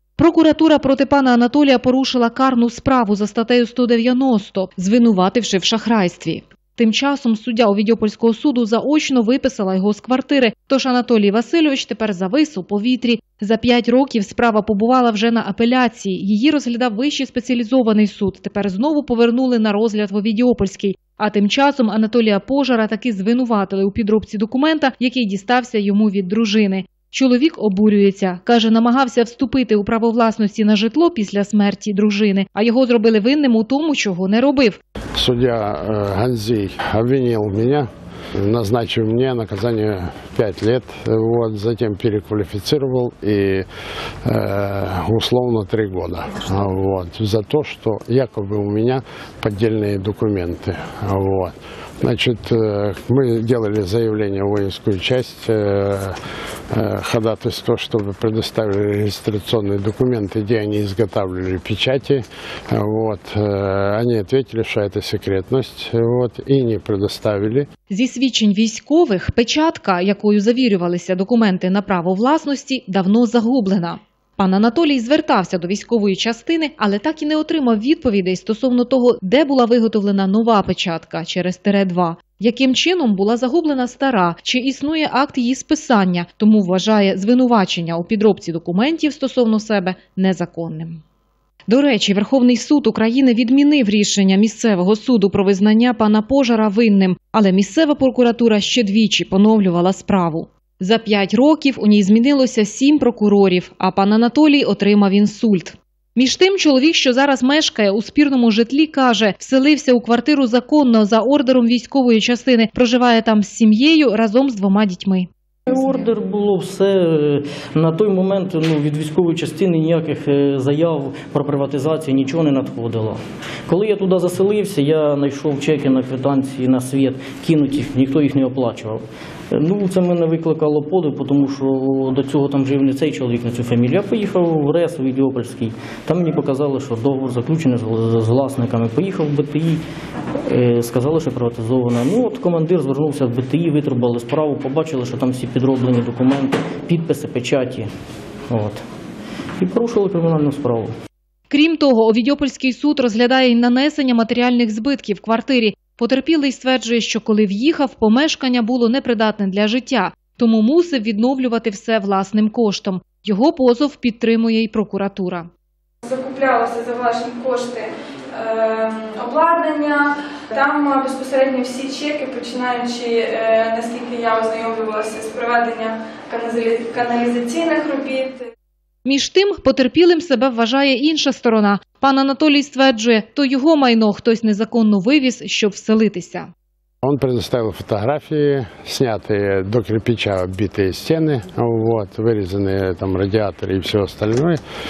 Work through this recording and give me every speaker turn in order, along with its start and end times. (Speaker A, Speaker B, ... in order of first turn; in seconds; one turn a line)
Speaker A: 0.2-34.8
Speaker B: 35.2-43.7
Speaker B: 44.2-56.2
Speaker B: 56.7-67.7
Speaker A: 67.9-91.0
Speaker A: 91.7-115.8
Speaker C: 115.7-139.8
Speaker C: 140.5-147.9
Speaker C: 148.5-148.8
Speaker C: 149.6-150.9
Speaker A: 151.5-165.5
Speaker D: 166.1-178.4
Speaker A: 179.1-186.5
Speaker B: 187.0-194.6